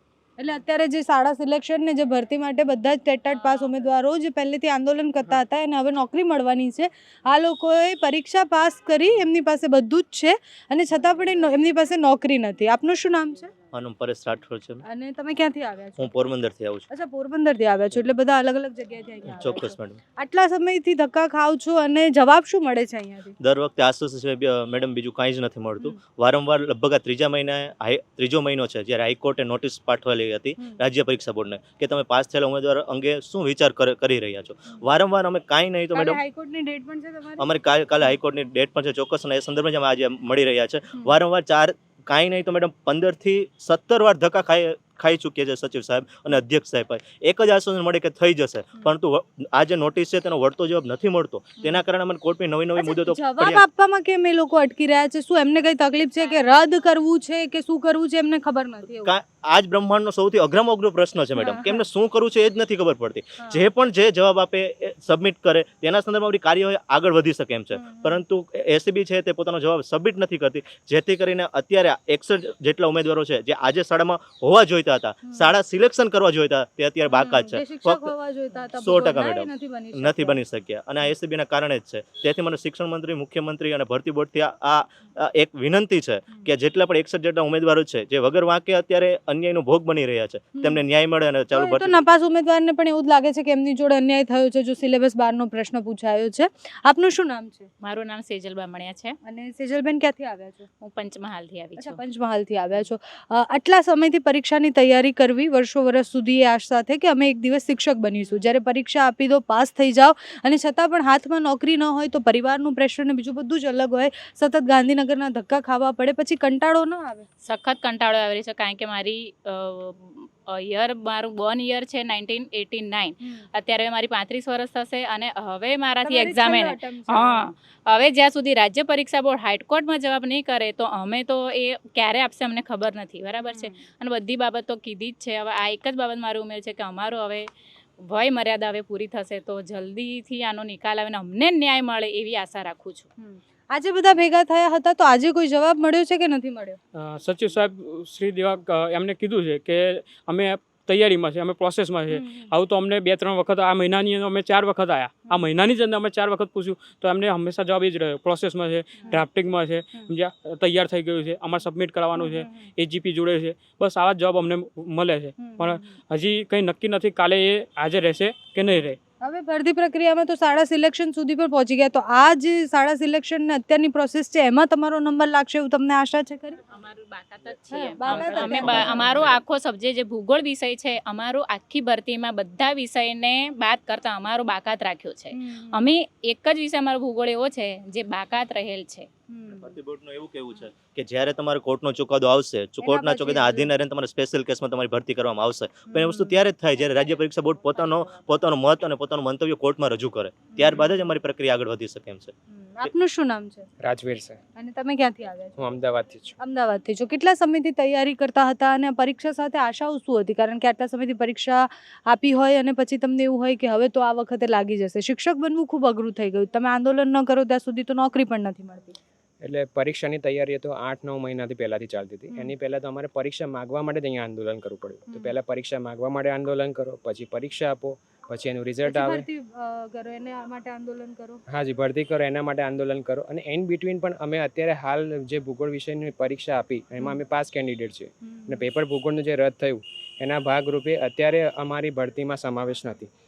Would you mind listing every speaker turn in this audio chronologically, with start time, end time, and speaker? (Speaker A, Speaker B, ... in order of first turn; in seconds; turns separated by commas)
Speaker A: 0.4-13.5, Speaker B: 13.7-14.8, Speaker A: 14.9-16.1, Speaker B: 16.0-16.9, Speaker A: 16.9-23.4, Speaker B: 19.3-20.0, Speaker B: 23.4-36.2, Speaker A: 35.9-37.5, Speaker B: 37.4-53.6, Speaker A: 52.8-59.1, Speaker B: 59.0-78.1, Speaker A: 61.4-61.8, Speaker A: 63.4-63.7, Speaker A: 67.7-68.2, Speaker A: 75.2-75.5, Speaker A: 77.1-80.4, Speaker B: 78.8-92.0, Speaker A: 90.6-90.8, Speaker A: 91.5-97.7, Speaker C: 97.8-99.2, Speaker A: 99.2-100.7, Speaker C: 100.8-102.0, Speaker A: 101.8-117.3, Speaker C: 117.4-137.5, Speaker A: 126.0-127.5, Speaker A: 133.4-133.9, Speaker C: 138.0-143.1, Speaker A: 143.2-146.8, Speaker D: 146.9-169.0, Speaker A: 152.1-152.5, Speaker A: 155.2-155.5, Speaker A: 159.0-159.3, Speaker A: 162.1-162.7, Speaker A: 165.4-166.0, Speaker A: 169.2-176.6, Speaker C: 176.7-189.1, Speaker B: 177.5-179.4, Speaker A: 177.7-179.4, Speaker A: 185.3-185.9, Speaker A: 189.3-189.8, Speaker B: 189.5-202.9, Speaker A: 192.8-193.7, Speaker A: 195.9-196.8, Speaker A: 197.4-198.2, Speaker A: 200.5-201.2, Speaker A: 202.5-203.7, Speaker E: 203.8-204.4, Speaker A: 204.6-205.6, Speaker E: 205.6-206.4, Speaker A: 206.4-219.0, Speaker E: 219.4-229.3, Speaker A: 228.9-231.4, Speaker E: 231.5-243.1, Speaker A: 238.3-238.7